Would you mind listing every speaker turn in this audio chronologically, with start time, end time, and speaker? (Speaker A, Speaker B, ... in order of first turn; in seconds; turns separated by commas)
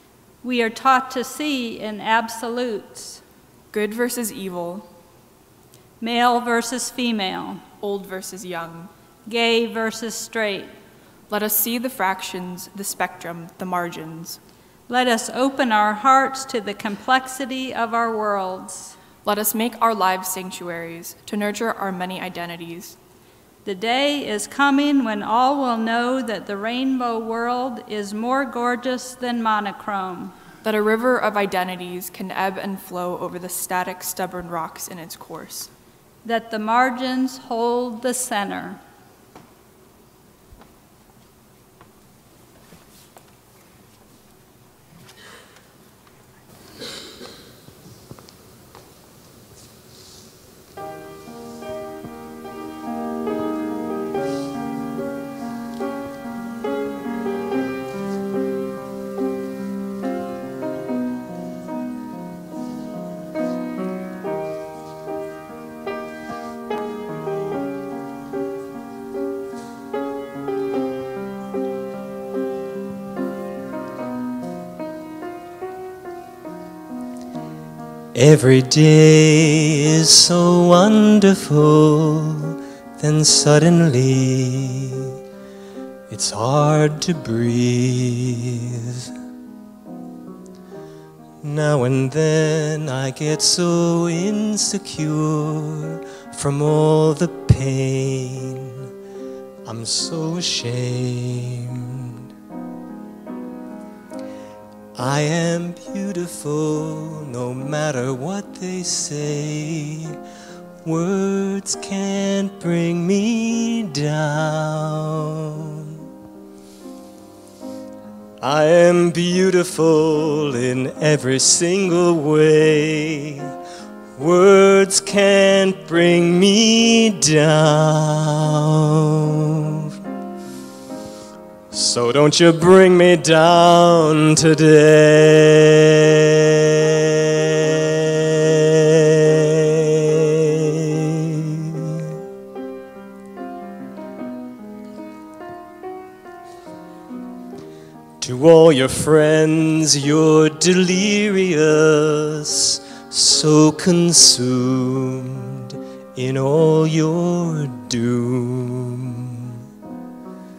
Speaker A: 0.4-3.2, Speaker B: 3.7-4.9, Speaker A: 6.0-7.6, Speaker B: 7.8-8.9, Speaker A: 9.3-10.7, Speaker B: 11.3-14.4, Speaker A: 14.9-18.9, Speaker B: 19.2-23.0, Speaker A: 23.6-30.4, Speaker B: 30.6-35.7, Speaker A: 36.2-38.8, Speaker C: 78.1-85.1, Speaker C: 86.1-89.1, Speaker C: 91.4-98.9, Speaker C: 99.7-102.1, Speaker C: 105.0-110.2, Speaker C: 110.8-116.0, Speaker C: 118.4-123.5, Speaker C: 124.2-129.4, Speaker C: 131.7-135.9, Speaker C: 137.5-139.5, Speaker C: 148.2-159.5